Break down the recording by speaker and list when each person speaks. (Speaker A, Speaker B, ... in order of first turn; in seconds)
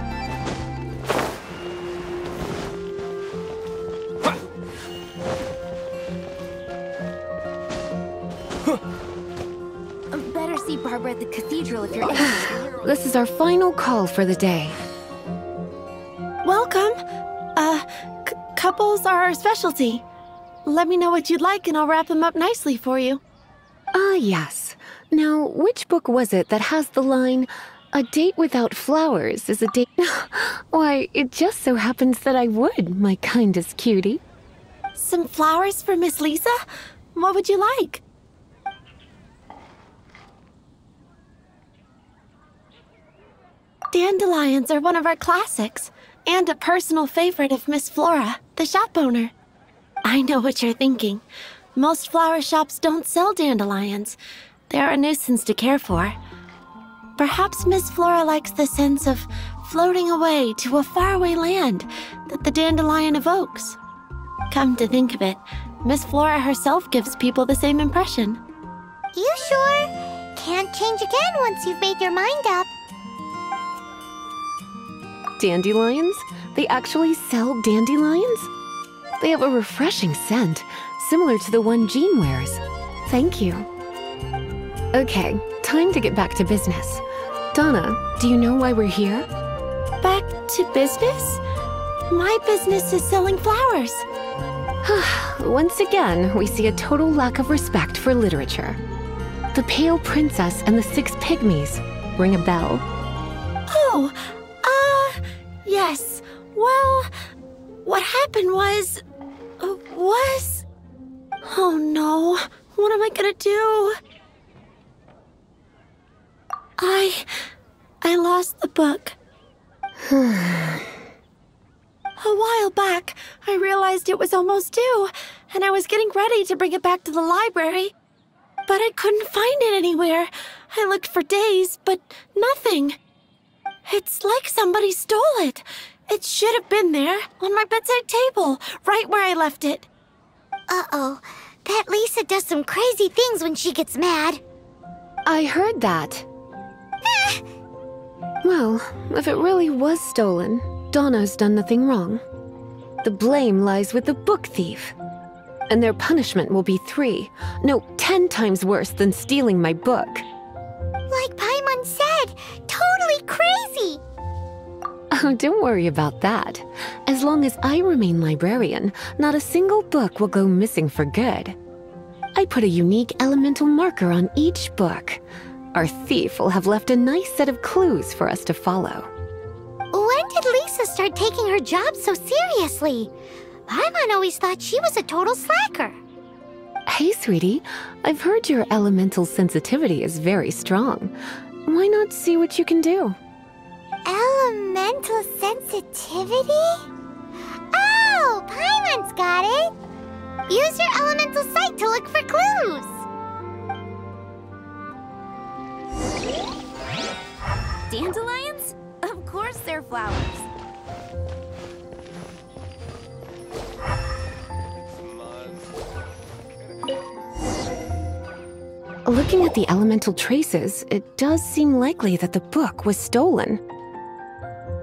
Speaker A: 10.1-12.9, 207.9-210.5
Speaker B: 12.0-14.8, 23.9-34.2, 75.4-78.5, 79.2-83.7, 84.9-87.0, 87.5-89.3, 94.8-98.8, 99.5-102.8, 120.0-120.9, 145.2-146.3, 148.4-152.2, 153.0-154.9, 155.7-160.2, 165.1-171.6, 172.3-175.2, 175.7-179.1, 186.9-191.1, 191.7-193.2, 219.1-223.6
Speaker C: 16.4-17.0, 17.6-20.0, 20.6-23.2, 34.9-36.5, 37.1-38.0, 43.9-49.3, 50.0-51.2, 51.7-54.2, 54.7-56.1, 57.2-63.8, 64.5-68.4, 90.0-91.4, 92.1-94.0, 103.7-107.1, 107.8-109.0, 109.6-110.7, 111.4-114.0, 116.8-117.3, 118.0-119.2, 122.2-127.9, 128.7-133.0, 133.8-139.9
Speaker D: 69.1-72.7, 140.7-144.4, 147.0-147.4, 161.1-164.0, 179.9-183.1, 183.7-186.0, 194.0-196.9, 197.7-199.7, 200.5-203.1